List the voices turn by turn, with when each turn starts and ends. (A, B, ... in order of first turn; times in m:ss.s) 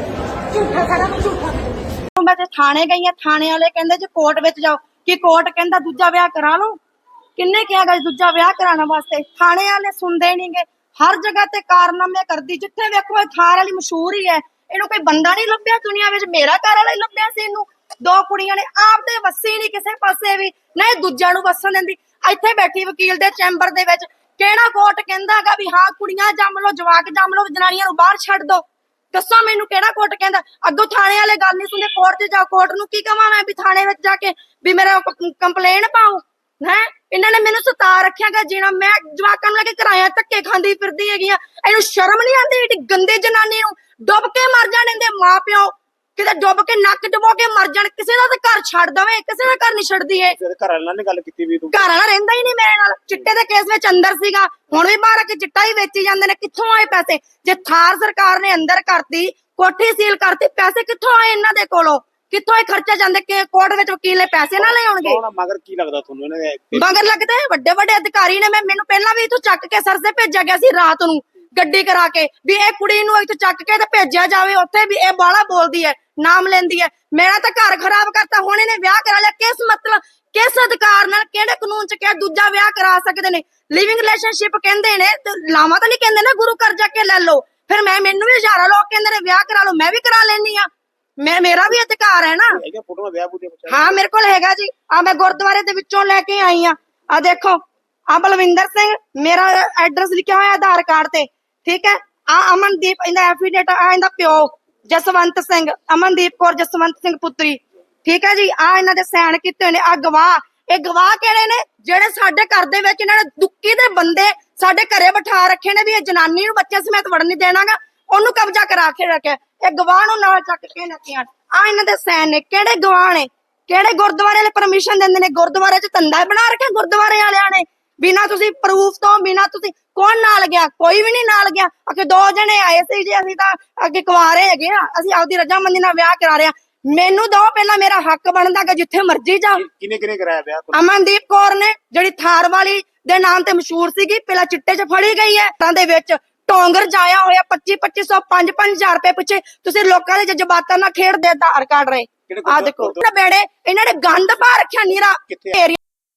0:00.7-0:01.5 A
0:02.1-0:06.8 A
0:07.4-0:50.4 A
0:50.3-0:51.8 B
0:51.7-1:05.2 A
1:04.6-1:07.0 B
1:06.7-1:30.7 A
1:31.2-1:32.6 A
1:32.5-1:34.0 B
1:33.7-2:19.7 A
2:19.6-2:20.9 B
2:20.7-2:35.8 A
2:32.3-2:33.0 B
2:35.3-2:35.6 B